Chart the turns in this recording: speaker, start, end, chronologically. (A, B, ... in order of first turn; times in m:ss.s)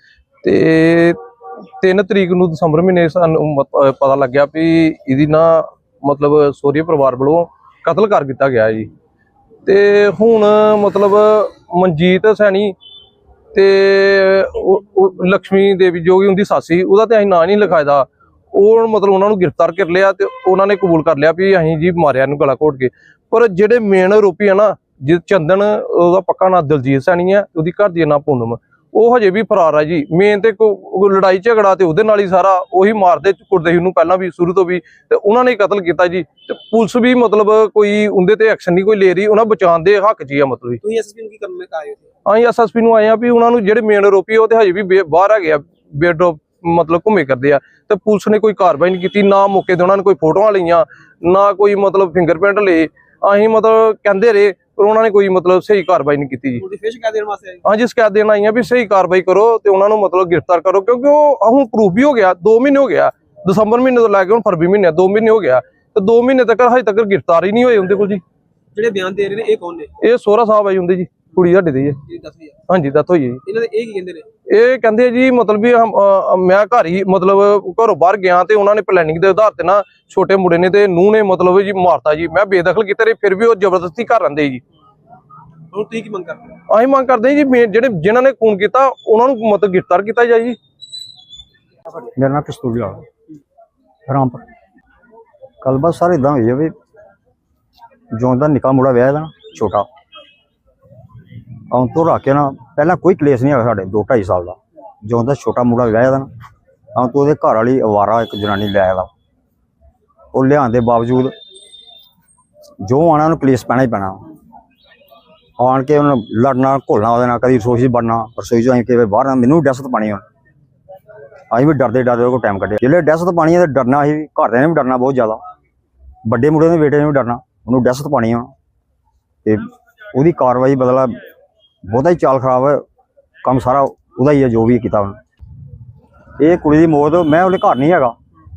0:00.4-0:01.2 A
0:01.8-0:08.9 A
0:09.6-0:12.7 A
0:13.5-0:40.8 A
0:40.8-0:42.1 B
0:42.2-0:56.6 A
0:56.6-0:57.6 B
0:57.6-1:08.2 A
1:08.7-1:09.9 B
1:10.0-1:12.0 A
1:12.1-1:12.6 B
1:12.7-1:13.4 A
1:13.4-1:14.3 B
1:14.4-1:24.6 A
1:25.7-1:26.4 B
1:26.7-1:30.6 A
1:31.9-1:33.0 C
1:34.1-1:34.4 C
1:35.6-1:36.7 C
1:38.1-1:39.9 C
1:41.7-1:46.3 C
1:46.9-1:49.1 C
1:50.3-1:51.3 C
1:52.8-1:54.2 C
1:55.6-2:00.2 C
2:01.5-2:05.4 C
2:06.2-2:08.5 C
2:09.4-2:11.2 C
2:11.8-2:12.8 C
2:13.4-2:15.2 C
2:16.4-2:18.1 C